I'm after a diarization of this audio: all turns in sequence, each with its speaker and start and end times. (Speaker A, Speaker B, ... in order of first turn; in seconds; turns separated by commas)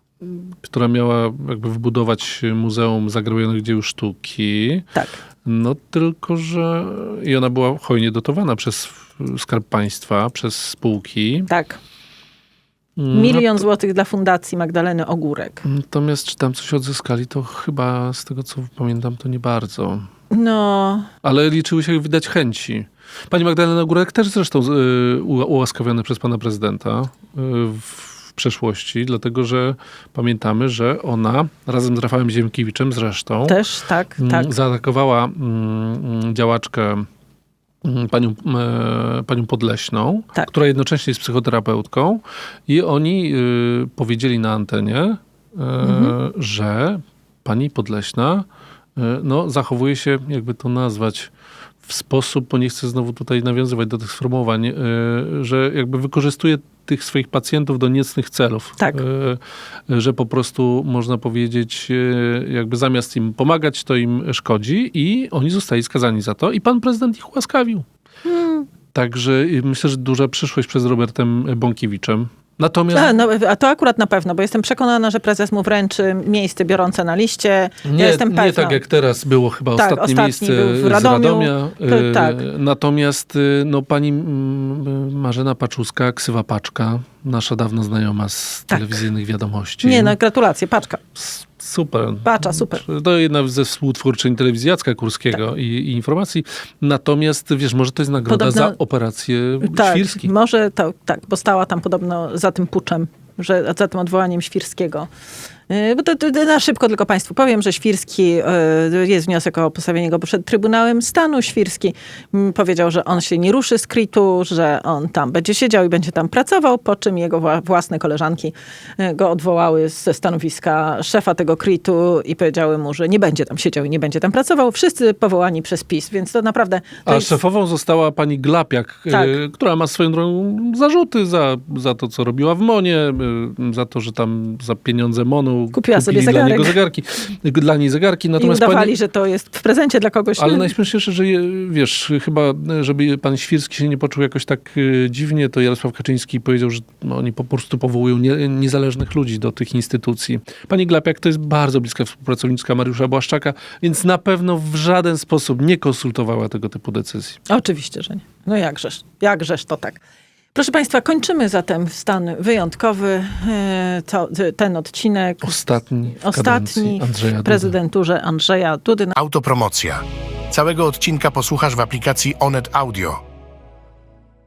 Speaker A: 0.2-4.9, Speaker A: 5.4-11.5, Speaker B: 11.5-11.8, Speaker A: 13.0-13.7, Speaker B: 13.1-15.6, Speaker A: 15.6-20.1, Speaker B: 20.3-21.1, Speaker A: 21.2-33.6, Speaker B: 33.5-34.5, Speaker A: 34.2-37.0, Speaker A: 37.8-48.5, Speaker B: 45.8-46.1, Speaker A: 49.0-51.3, Speaker A: 51.8-67.8, Speaker B: 68.2-68.7, Speaker A: 68.9-73.1, Speaker B: 72.9-78.8, Speaker A: 77.8-90.2, Speaker B: 79.8-82.4, Speaker B: 88.7-89.0, Speaker B: 89.8-91.0, Speaker A: 91.2-100.3, Speaker B: 92.2-92.8, Speaker B: 98.3-98.8, Speaker B: 99.6-105.1, Speaker B: 105.7-127.3, Speaker A: 127.0-138.9, Speaker B: 129.1-129.3, Speaker B: 135.7-136.8, Speaker B: 138.4-140.7, Speaker A: 140.4-157.4, Speaker B: 157.5-160.0, Speaker B: 160.5-165.6, Speaker A: 165.4-167.8, Speaker B: 166.2-169.2, Speaker C: 169.2-173.2